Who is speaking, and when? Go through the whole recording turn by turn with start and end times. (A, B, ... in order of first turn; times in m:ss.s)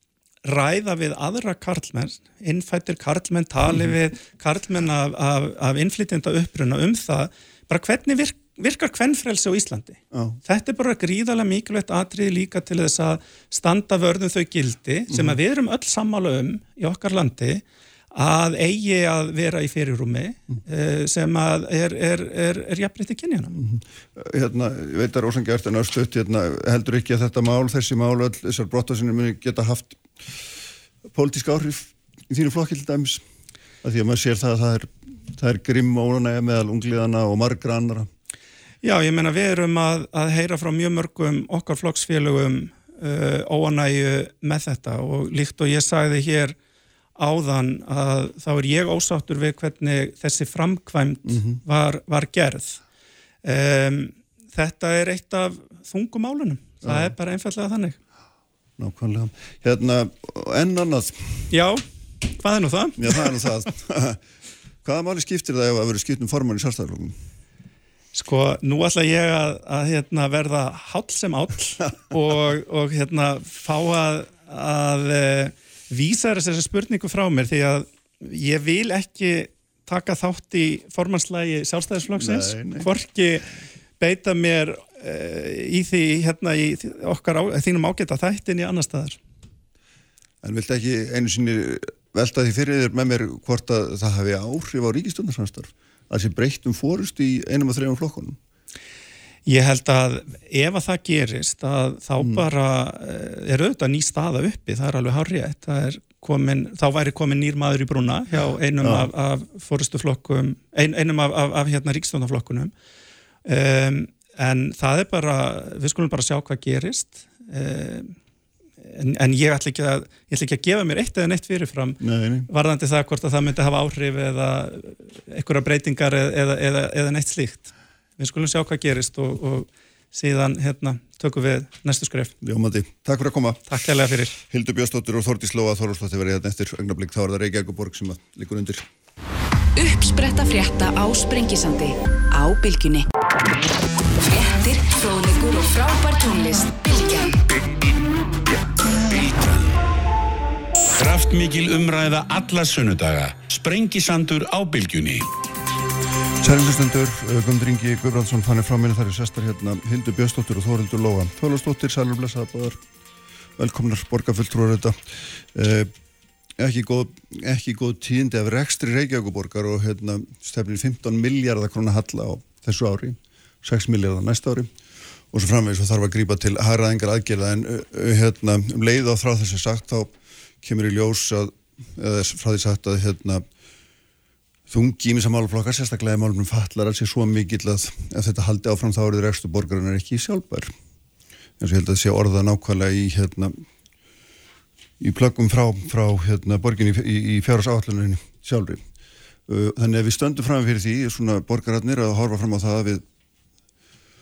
0:00.4-0:17.6 A
0:10.1-0:10.4 B
0:15.1-0:15.4 B
0:18.1-0:23.6 A
0:23.6-0:30.5 B
0:31.1-0:33.2 B
0:33.8-0:38.1 B
0:38.8-0:46.6 A
0:47.2-0:52.8 A
0:51.3-0:51.6 B
0:53.4-0:58.0 A
0:56.8-0:57.1 B
0:58.8-1:01.4 B
1:01.5-1:01.8 A
1:02.4-1:03.4 A
1:03.0-1:04.2 B
1:04.8-1:07.2 B
1:08.1-1:29.2 A
1:22.1-1:22.9 B
1:30.4-1:38.4 B
1:39.4-1:52.7 A
1:42.2-1:42.4 B
1:48.8-1:49.1 B
1:53.4-1:58.1 A
1:58.9-2:12.3 A
2:02.0-2:02.5 B
2:12.4-2:13.6 B
2:13.7-2:14.4 A
2:14.5-2:18.8 B
2:19.8-2:23.1 C
2:24.1-2:27.4 C
2:28.9-2:29.7 D
2:30.9-2:35.3 D
2:36.4-2:42.8 B
2:43.6-2:45.9 B
2:46.6-2:54.7 B
2:55.3-3:03.4 B
3:04.7-3:10.7 B
3:11.6-3:13.6 B
3:15.0-3:18.8 B
3:19.5-3:23.0 B